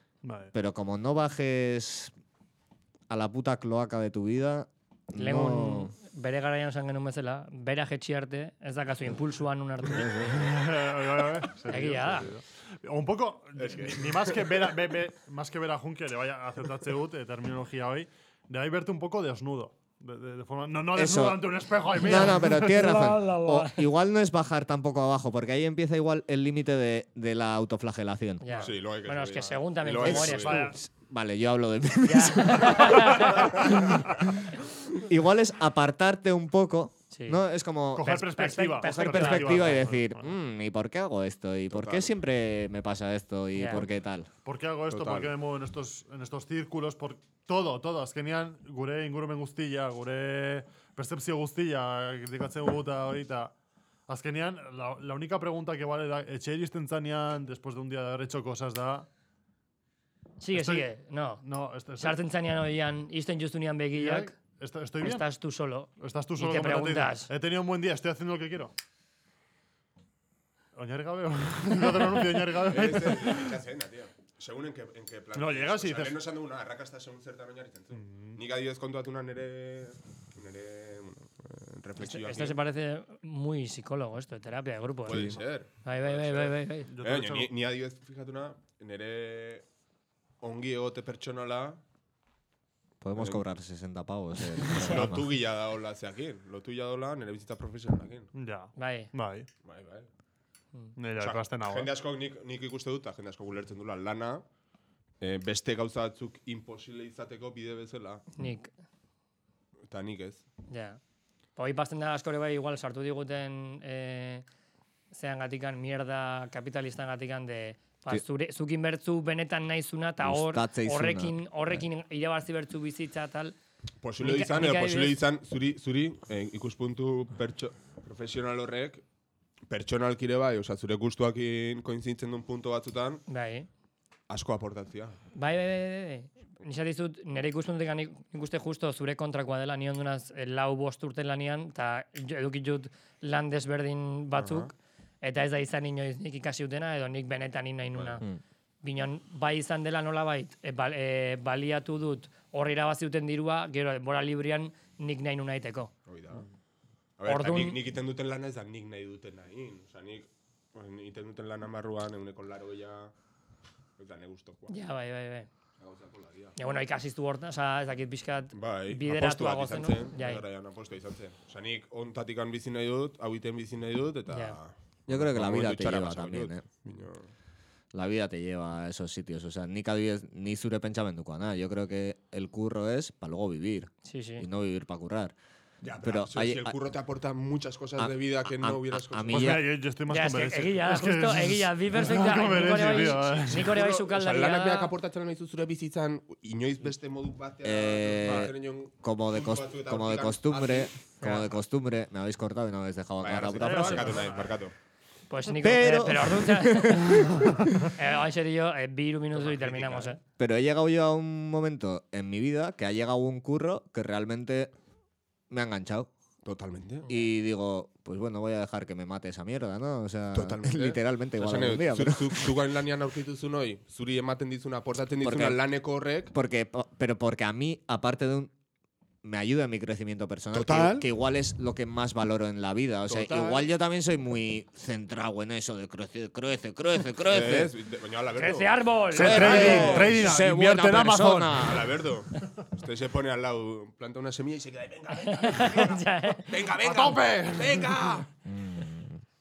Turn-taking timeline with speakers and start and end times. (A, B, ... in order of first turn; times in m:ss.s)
0:00.2-0:00.5 A
0:00.5-0:02.1 B
0:03.1-0:05.9 B
0:05.1-0:10.4 C
0:09.9-0:10.4 B
0:10.3-0:23.4 A
0:11.7-0:12.3 C
0:13.6-0:14.7 D
0:20.9-0:28.5 B
0:22.1-0:23.9 C
0:28.4-0:30.8 C
0:28.6-0:30.8 D
0:29.4-0:30.8 A
0:30.7-0:44.3 B
0:32.0-0:33.9 C
0:37.1-0:37.4 C
0:37.9-0:40.3 A
0:38.1-0:39.9 C
0:41.7-0:42.1 D
0:43.6-0:43.8 C
0:44.4-0:53.5 A
0:44.9-0:45.3 D
0:54.1-0:59.1 A
1:00.4-1:01.4 C
1:00.5-1:00.9 A
1:01.4-1:02.2 A
1:02.0-1:04.3 C
1:04.0-1:05.2 A
1:05.0-1:07.3 C
1:06.0-1:08.7 A
1:10.7-1:13.5 A
1:12.5-1:22.6 D
1:15.4-1:16.2 A
1:17.9-1:18.4 A
1:22.0-1:25.2 C
1:25.1-1:29.6 D
1:25.1-1:25.4 B
1:25.8-1:26.9 C
1:26.9-1:27.5 A
1:30.4-1:31.8 D
1:33.0-1:35.3 B
1:33.1-1:33.4 D
1:34.6-1:38.3 D
1:38.4-1:39.5 A
1:38.8-1:39.1 C
1:39.6-1:40.1 D
1:41.0-1:41.9 A
1:41.2-1:44.4 D
1:45.2-1:48.2 D
1:48.3-1:48.7 C
1:49.9-1:50.4 D
1:50.7-1:51.0 C
1:51.6-1:54.4 C
1:55.1-2:03.6 C
2:00.2-2:01.8 B
2:04.0-2:09.0 D
2:04.2-2:05.2 C
2:09.7-2:13.2 D
2:13.3-2:13.7 C
2:14.3-2:15.2 D
2:15.4-2:28.2 C
2:24.4-2:24.7 D
2:27.9-2:28.2 D
2:28.8-2:35.9 C
2:36.1-2:36.4 D
2:37.2-2:43.1 D
2:37.3-2:37.8 C
2:44.0-2:44.7 D
2:44.7-2:45.5 C
2:45.8-2:46.6 D
2:46.6-2:50.4 C
2:48.5-2:57.3 D
2:54.3-2:54.6 C
2:55.1-2:56.6 B
2:57.9-3:05.4 B
3:04.0-3:04.4 C
3:05.8-3:09.6 D
3:06.0-3:06.7 B
3:08.0-3:09.6 B
3:09.3-3:13.7 A
3:10.1-3:14.9 C
3:12.6-3:20.9 D
3:17.6-3:24.2 B
3:21.2-3:21.5 C
3:23.2-3:24.7 D
3:23.6-3:24.6 A
3:25.3-3:27.2 C
3:25.6-3:27.9 B
3:27.9-3:30.2 C
3:29.3-3:30.2 D
3:30.4-3:34.7 B
3:35.5-3:36.1 B
3:36.4-3:37.1 D
3:37.1-3:37.3 C
3:37.1-3:42.5 B
3:40.3-3:46.3 D
3:45.2-3:45.6 B
3:46.3-3:48.5 B
3:49.2-3:57.7 B
3:50.5-3:51.1 D
3:53.1-3:53.7 D
3:57.3-4:00.4 D
3:58.4-4:00.1 C
3:59.1-4:01.8 A
3:59.1-4:02.0 B
4:01.6-4:08.3 D
4:05.2-4:06.5 C
4:06.8-4:08.0 A
4:08.5-4:09.2 B